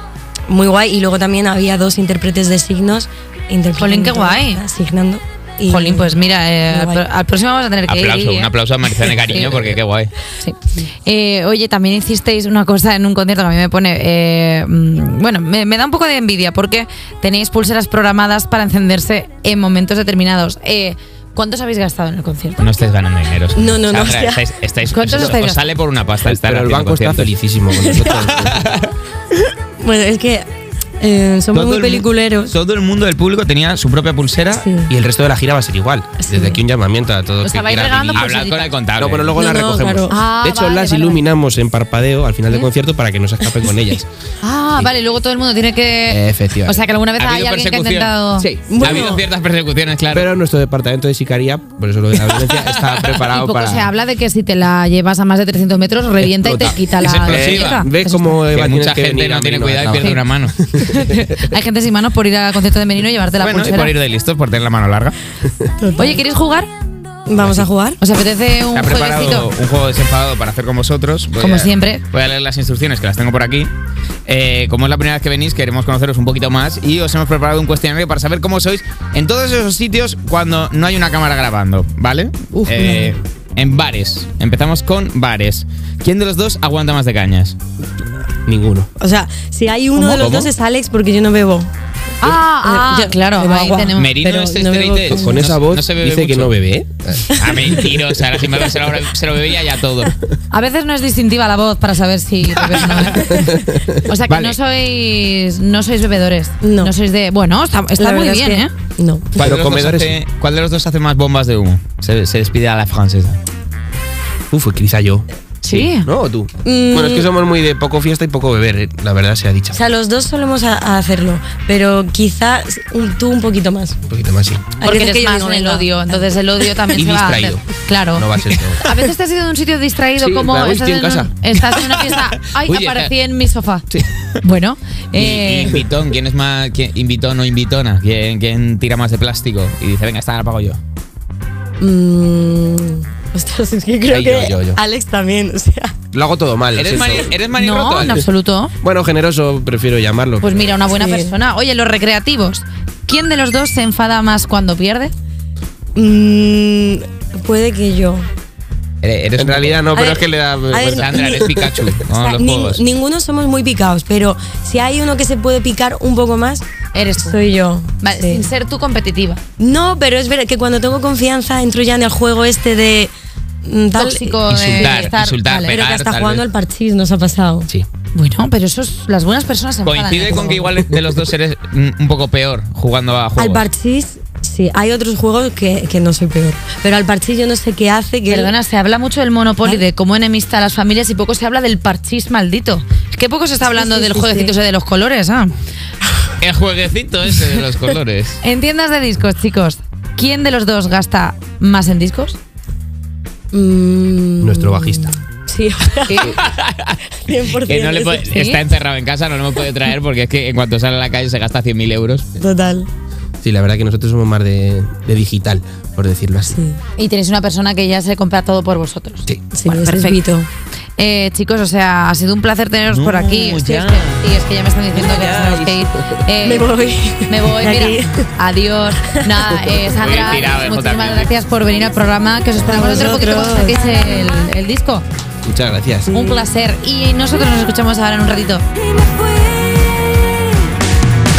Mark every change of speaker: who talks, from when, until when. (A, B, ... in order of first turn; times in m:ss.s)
0:00.5-0:06.2 A
0:03.8-0:04.6 B
0:05.7-0:08.5 B
0:06.7-0:07.0 A
0:07.9-0:10.1 C
0:10.4-0:22.6 B
0:22.6-0:27.4 C
0:23.6-0:24.5 A
0:24.9-0:25.7 B
0:26.2-0:28.6 D
0:27.9-0:28.9 C
0:29.8-0:30.5 A
0:31.0-0:32.6 A
0:31.5-0:34.7 C
0:34.5-0:34.9 A
0:34.9-0:38.3 D
0:36.2-0:36.6 A
0:37.4-0:38.7 B
0:37.8-0:39.4 C
0:39.0-0:44.1 D
0:39.3-0:40.2 A
0:40.1-0:41.2 B
0:44.4-0:48.5 B
0:46.1-0:46.8 D
0:47.2-0:48.2 C
0:48.4-0:49.1 D
0:48.7-0:49.2 A
0:48.7-0:50.3 C
0:50.1-0:53.9 D
0:52.2-0:53.4 C
0:53.3-0:58.4 B
0:56.4-1:01.1 D
0:56.9-0:57.9 C
0:58.5-1:00.5 C
1:00.8-1:04.0 B
1:03.4-1:05.2 C
1:05.8-1:06.2 A
1:06.0-1:06.7 B
1:07.3-1:08.0 A
1:07.4-1:07.7 C
1:08.0-1:09.5 B
1:08.7-1:13.7 C
1:11.4-1:12.0 B
1:14.3-1:27.6 C
1:22.6-1:23.2 A
1:28.5-1:28.9 D
1:29.0-1:31.7 A
1:29.9-1:30.5 C
1:32.2-1:34.1 B
1:32.6-1:35.4 A
1:34.0-1:36.6 C
1:35.1-1:37.9 D
1:37.3-1:37.7 A
1:37.4-1:40.2 C
1:40.5-1:43.5 B
1:44.0-1:48.7 B
1:44.3-1:44.6 C
1:46.6-1:46.9 A
1:48.0-1:49.4 A
1:49.4-1:53.4 C
1:49.4-1:50.2 D
1:54.5-1:59.8 D
1:55.6-1:56.1 B
1:56.6-1:57.3 A
1:59.7-2:04.0 A
2:04.1-2:04.8 D
2:04.8-2:06.9 A
2:04.8-2:13.9 B
2:07.0-2:08.9 D
2:10.2-2:12.0 D
2:12.6-2:13.1 C
2:14.4-2:15.8 B
2:15.1-2:20.8 C
2:21.8-2:26.0 A
2:24.1-2:24.8 D
2:26.1-2:27.3 D
2:26.7-2:28.2 C
2:27.5-2:28.7 B
2:28.8-2:30.8 D
2:30.4-2:35.1 B
2:30.9-2:31.4 A
2:36.0-2:38.3 A
2:39.0-2:39.9 C
2:39.4-2:41.5 D
2:40.0-2:46.6 A
2:40.8-2:42.8 C
2:46.9-2:47.4 B
2:47.2-2:48.5 A
2:48.0-2:49.4 B
2:49.6-2:53.1 A
2:53.6-2:55.1 A
2:54.0-2:55.8 B
2:54.5-2:54.8 D
2:54.7-2:56.4 C
2:55.6-2:57.7 A
2:58.2-3:00.6 B
2:59.8-3:03.7 C
3:03.4-3:08.6 A
3:08.3-3:15.5 B
3:13.6-3:14.6 A
3:16.4-3:18.4 C
3:18.4-3:22.4 B
3:23.5-3:26.4 A
3:24.4-3:25.2 D
3:26.2-3:32.3 C
3:27.2-3:28.3 A
3:28.3-3:28.6 B
3:32.4-3:32.9 A
3:33.4-3:36.6 D
3:36.5-3:36.8 A
3:37.0-3:40.2 B
3:39.5-3:40.5 A
3:41.0-3:46.8 B
3:42.9-3:44.3 C
3:44.9-3:45.9 C
3:46.4-3:48.3 A
3:47.3-3:55.0 B
3:49.9-3:51.3 C
3:52.6-3:53.8 A
3:55.5-3:56.1 D
3:56.1-3:56.5 A
3:56.1-3:58.6 B
3:59.2-3:59.8 A